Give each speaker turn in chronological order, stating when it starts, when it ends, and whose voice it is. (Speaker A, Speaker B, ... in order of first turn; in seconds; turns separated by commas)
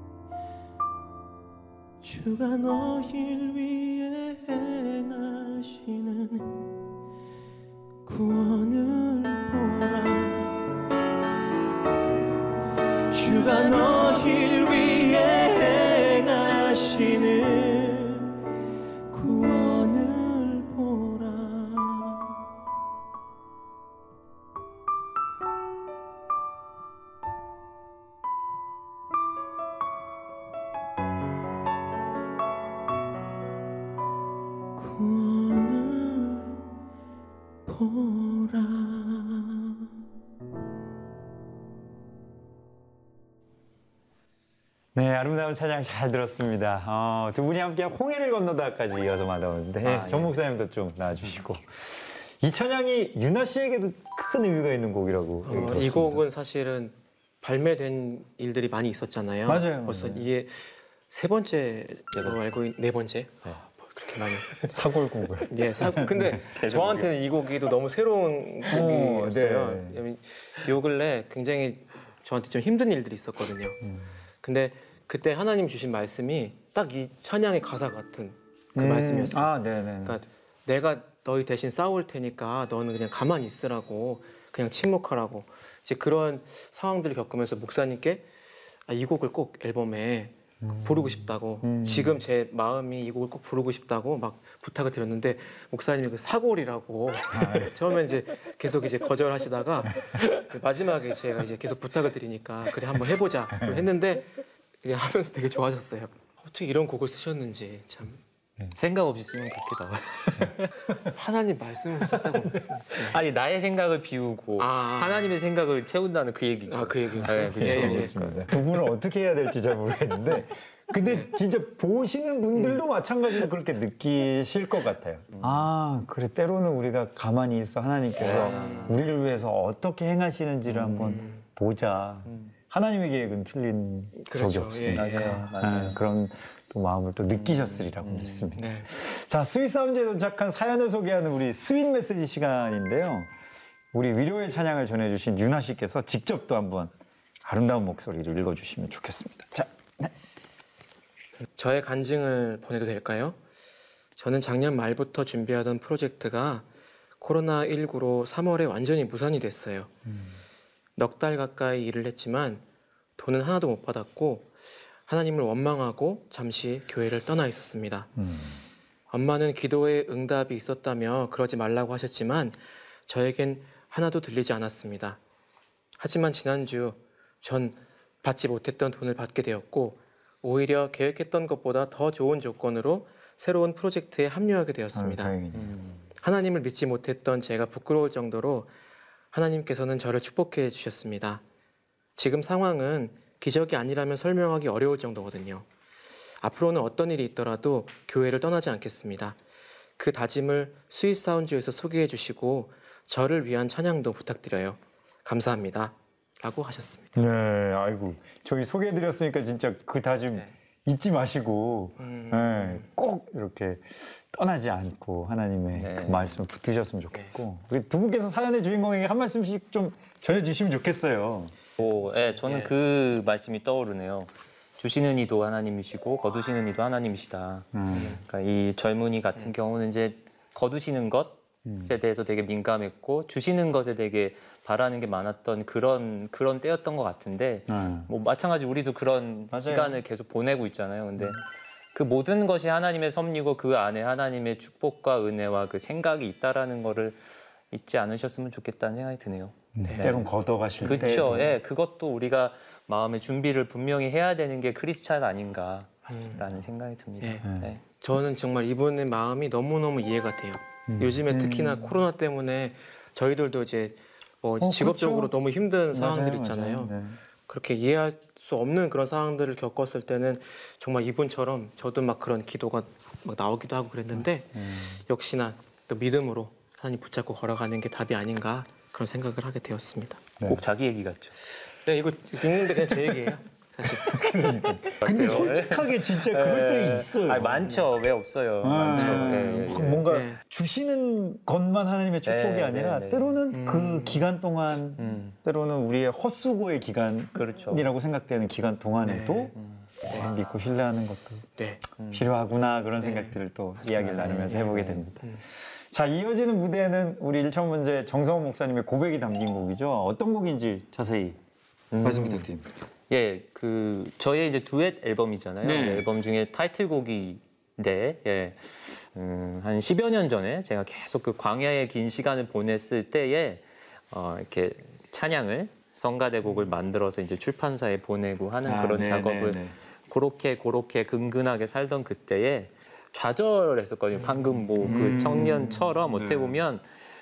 Speaker A: 2.0-6.6, Speaker A: 8.1-10.6, Speaker A: 13.1-18.3, Speaker A: 19.1-22.3, Speaker A: 34.8-36.5, Speaker A: 37.6-39.8, Speaker B: 44.9-56.2, Speaker C: 49.9-50.3, Speaker A: 55.4-64.7, Speaker B: 59.4-60.3, Speaker B: 64.6-66.6, Speaker A: 65.4-73.9, Speaker C: 66.6-67.1, Speaker B: 68.7-70.0, Speaker B: 73.8-74.1, Speaker A: 74.4-88.3, Speaker B: 78.7-80.2, Speaker A: 88.9-108.2, Speaker B: 90.6-92.2, Speaker B: 97.3-97.7, Speaker B: 103.5-103.9, Speaker C: 108.7-110.7, Speaker A: 111.1-113.2, Speaker C: 112.9-118.5, Speaker A: 114.6-115.3, Speaker A: 116.7-118.1, Speaker B: 117.2-143.3, Speaker A: 122.5-122.8, Speaker C: 125.3-125.6, Speaker A: 128.2-129.0, Speaker C: 128.3-128.8, Speaker C: 130.7-131.2, Speaker A: 131.1-131.4, Speaker A: 134.2-135.4, Speaker C: 134.9-136.0, Speaker C: 137.3-138.5, Speaker A: 138.5-138.9, Speaker B: 143.9-146.9, Speaker B: 147.4-150.1, Speaker A: 151.6-153.4, Speaker A: 154.2-156.7, Speaker A: 157.2-159.9, Speaker B: 160.1-160.3, Speaker A: 161.0-162.6, Speaker A: 163.2-164.5, Speaker A: 165.1-168.1, Speaker B: 168.2-168.6, Speaker A: 169.1-175.2, Speaker A: 176.0-185.3, Speaker B: 184.9-185.7, Speaker C: 185.6-185.9, Speaker A: 186.2-188.7, Speaker A: 189.3-191.4, Speaker A: 192.2-195.7, Speaker A: 196.4-199.4, Speaker A: 200.0-207.2, Speaker B: 207.2-221.5, Speaker A: 212.0-212.8, Speaker C: 215.7-216.4, Speaker C: 221.8-241.4, Speaker A: 222.1-222.7, Speaker B: 227.7-228.2, Speaker A: 227.9-228.2, Speaker B: 231.6-231.9, Speaker B: 237.7-238.1, Speaker B: 239.5-240.0, Speaker C: 241.9-250.3, Speaker B: 249.8-251.6, Speaker A: 249.8-250.2, Speaker A: 250.8-251.1, Speaker C: 250.8-257.8, Speaker A: 256.1-256.4, Speaker A: 257.2-266.9, Speaker B: 257.4-257.7, Speaker B: 260.9-262.0, Speaker B: 264.6-265.4, Speaker B: 265.9-267.2, Speaker A: 267.5-280.5, Speaker B: 274.5-275.0, Speaker C: 280.4-281.4, Speaker A: 281.8-285.5, Speaker B: 283.9-287.7, Speaker C: 284.9-290.1, Speaker B: 288.6-299.5, Speaker A: 288.9-289.5, Speaker A: 290.1-290.4, Speaker C: 292.2-293.4, Speaker A: 293.5-294.2, Speaker C: 295.0-295.4, Speaker C: 297.3-297.9, Speaker A: 299.0-299.5, Speaker C: 299.5-299.8, Speaker B: 300.1-301.5, Speaker A: 301.6-301.8, Speaker C: 302.0-302.2, Speaker B: 302.0-311.4, Speaker A: 303.0-305.4, Speaker C: 304.1-305.0, Speaker C: 311.9-312.5, Speaker B: 312.0-312.7, Speaker C: 313.1-336.9, Speaker B: 315.6-316.1, Speaker B: 328.6-329.7, Speaker A: 334.1-334.9, Speaker B: 334.8-336.6